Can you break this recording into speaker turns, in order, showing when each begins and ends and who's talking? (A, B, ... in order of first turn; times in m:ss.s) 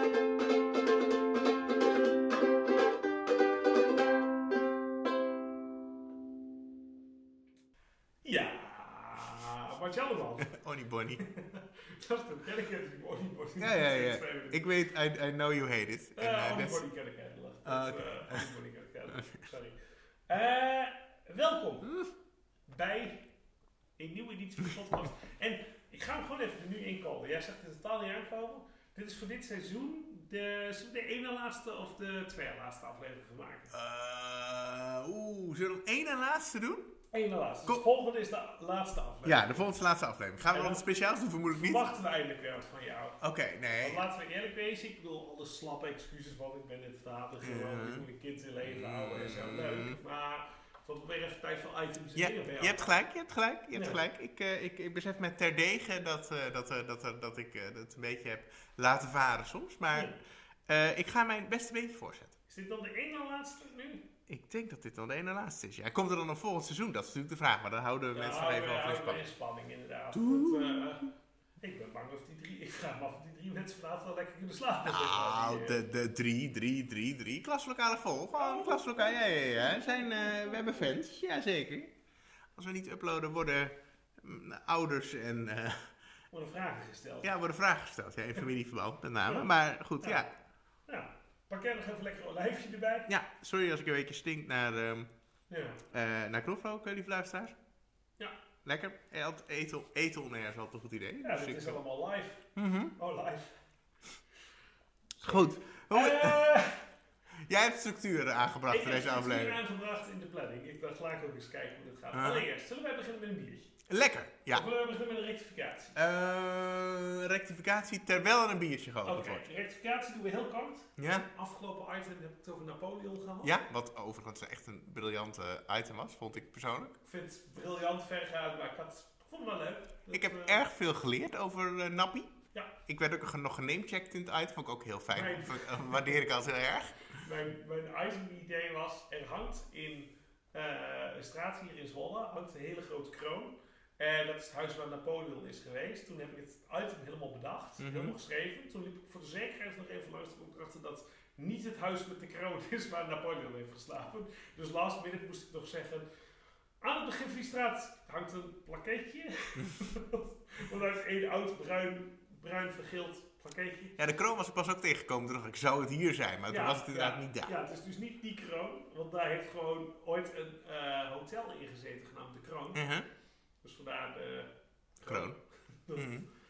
0:08.2-0:10.6 A
0:10.4-0:11.2 B
0:11.2-0:14.6 A
0:13.6-0:16.8 B
0:16.2-0:19.8 A
0:17.6-0:18.4 B
0:20.3-0:22.0 A
0:21.8-0:22.1 B
0:22.7-0:23.3 A
0:24.0-0:33.7 A
0:33.7-0:37.0 B
0:37.1-0:39.7 A
0:39.2-0:41.9 B
0:40.5-0:40.8 A
0:41.5-0:43.2 A
0:43.2-0:44.0 B
0:43.8-0:53.0 A
0:47.4-0:48.0 B
0:48.6-0:50.0 B
0:52.1-1:02.4 B
0:53.7-0:54.0 A
1:02.5-1:04.0 A
1:04.3-1:09.2 B
1:08.1-1:11.1 A
1:10.1-1:10.9 B
1:11.6-1:15.8 A
1:14.8-1:21.9 B
1:18.4-1:21.0 A
1:22.5-1:25.9 B
1:26.3-1:27.3 A
1:27.2-1:30.3 B
1:29.2-1:30.2 A
1:30.9-1:33.1 A
1:33.1-1:35.1 B
1:35.5-1:35.8 A
1:35.9-1:37.6 B
1:38.6-1:41.8 B
1:41.2-1:43.6 A
1:42.6-1:42.9 B
1:45.2-1:46.8 A
1:45.2-1:46.5 B
1:47.4-1:49.6 B
1:48.7-1:53.7 A
1:52.1-1:52.4 B
1:53.9-1:54.7 B
1:54.5-1:56.0 A
1:55.9-1:59.4 B
1:59.0-2:03.6 A
2:01.0-2:01.3 B
2:03.4-2:07.0 B
2:07.0-2:10.6 A
2:10.1-2:12.3 B
2:12.9-2:17.2 B
2:15.1-2:16.2 A
2:17.2-2:36.0 A
2:27.8-2:28.2 B
2:36.8-2:44.0 A
2:44.0-2:47.5 B
2:46.5-2:52.9 A
2:52.7-2:53.1 B
2:53.6-2:56.1 A
2:55.0-2:55.4 B
2:56.0-2:56.3 B